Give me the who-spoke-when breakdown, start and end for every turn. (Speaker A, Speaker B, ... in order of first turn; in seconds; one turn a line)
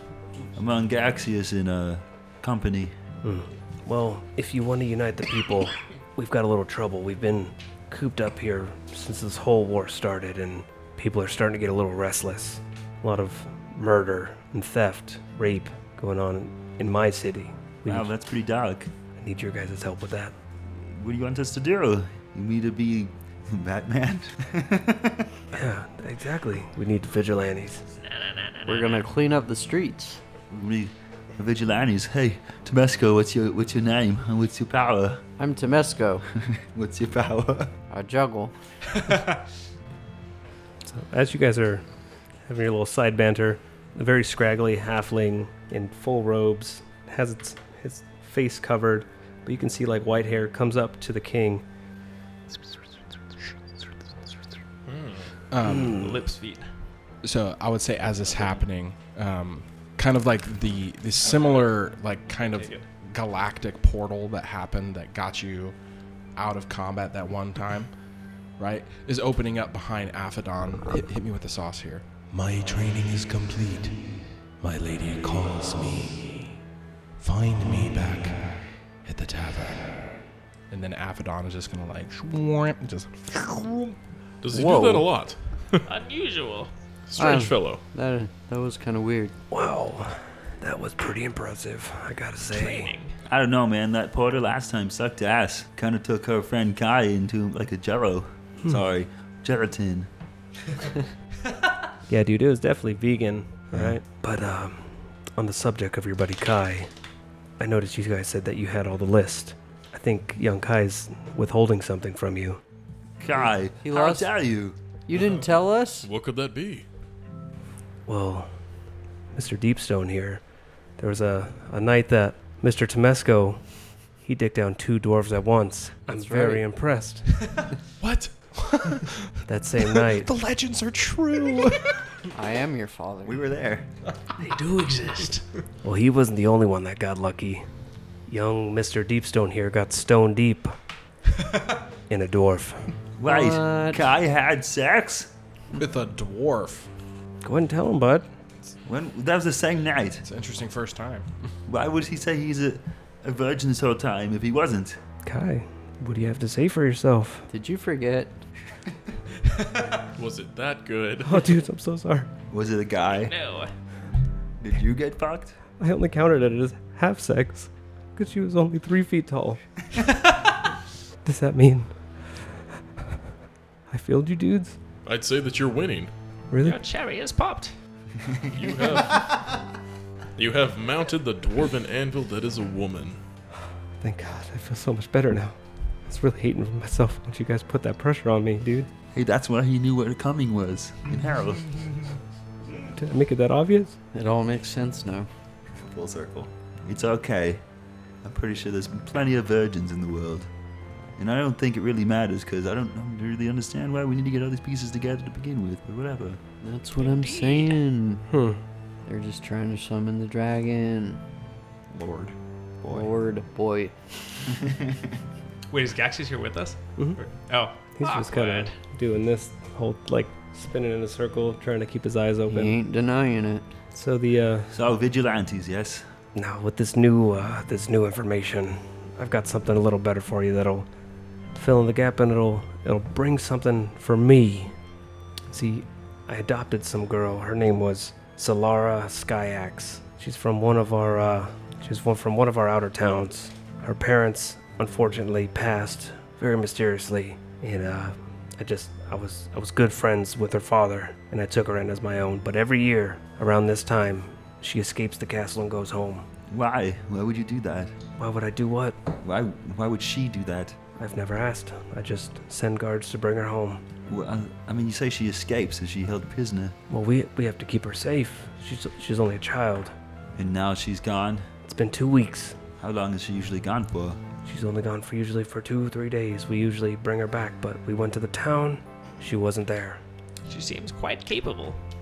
Speaker A: 0.5-2.9
Speaker B: 3.2-18.1
Speaker A: 17.9-18.9
Speaker B: 19.2-20.3
Speaker A: 20.7-24.7
Speaker B: 25.5-27.8
Speaker C: 27.9-29.1
Speaker D: 28.6-30.2
Speaker A: 30.5-35.2
Speaker D: 35.4-36.2
Speaker A: 36.6-37.7
Speaker D: 37.9-38.5
Speaker B: 40.8-41.8
Speaker B: 42.5-51.6
Speaker E: 54.9-55.3
Speaker F: 55.5-56.2
Speaker C: 55.6-56.7
Speaker F: 57.2-65.7
Speaker C: 58.3-58.6
Speaker C: 61.2-61.7
Speaker C: 62.4-62.9
Speaker F: 66.3-67.9
Speaker F: 68.6-74.1
Speaker F: 74.6-76.4
Speaker F: 77.2-80.0
Speaker F: 80.7-83.9
Speaker E: 84.4-85.8
Speaker D: 84.5-85.1
Speaker C: 85.9-86.7
Speaker E: 87.1-87.8
Speaker D: 87.2-89.3
Speaker B: 89.5-92.9
Speaker C: 92.5-93.2
Speaker A: 93.2-100.1
Speaker B: 102.1-106.9
Speaker B: 107.6-112.6
Speaker A: 113.2-114.8
Speaker D: 113.3-114.3
Speaker D: 115.1-116.1
Speaker E: 116.0-116.8
Speaker B: 118.0-118.5
Speaker B: 119.3-120.4
Speaker B: 121.0-127.4
Speaker D: 126.1-126.6
Speaker E: 128.0-128.3
Speaker F: 128.6-129.0
Speaker B: 129.4-130.3
Speaker F: 130.1-131.8
Speaker D: 132.3-133.4
Speaker G: 133.2-133.9
Speaker C: 134.4-135.4
Speaker B: 135.8-137.7
Speaker B: 138.3-140.8
Speaker B: 142.1-142.9
Speaker A: 143.2-145.3
Speaker D: 143.2-144.0
Speaker F: 145.8-146.8
Speaker B: 147.4-148.3
Speaker A: 148.8-150.2
Speaker F: 150.2-151.5
Speaker A: 151.7-155.0
Speaker B: 155.2-157.5
Speaker D: 157.5-158.4
Speaker E: 160.1-161.6
Speaker B: 161.2-162.3
Speaker A: 162.5-163.3
Speaker C: 163.1-163.7
Speaker A: 164.6-165.6
Speaker B: 165.8-169.6
Speaker B: 171.2-172.4
Speaker B: 173.9-174.8
Speaker E: 175.0-176.1
Speaker B: 176.5-176.8
Speaker C: 176.6-177.7
Speaker E: 178.5-179.3
Speaker E: 180.3-183.2
Speaker B: 184.0-188.9
Speaker A: 189.1-191.9
Speaker B: 192.9-193.9
Speaker D: 194.1-195.3
Speaker G: 195.7-196.5
Speaker A: 196.8-197.6
Speaker A: 198.2-200.5
Speaker A: 201.2-206.4
Speaker D: 206.6-208.2
Speaker C: 206.9-207.8
Speaker B: 208.3-208.6
Speaker D: 209.1-211.2
Speaker G: 211.9-213.2
Speaker D: 212.9-213.9
Speaker C: 215.7-218.7
Speaker B: 217.8-222.7
Speaker D: 222.5-223.7
Speaker B: 223.9-224.7
Speaker A: 224.7-226.1
Speaker B: 226.3-230.9
Speaker B: 231.5-234.7
Speaker B: 235.5-256.2
Speaker A: 256.5-257.9
Speaker B: 258.2-259.0
Speaker A: 259.2-260.8
Speaker B: 261.0-263.8
Speaker A: 264.1-266.8
Speaker B: 266.9-269.9
Speaker A: 270.4-271.4
Speaker B: 271.6-272.6
Speaker A: 272.8-274.2
Speaker B: 274.4-280.0
Speaker C: 280.5-281.8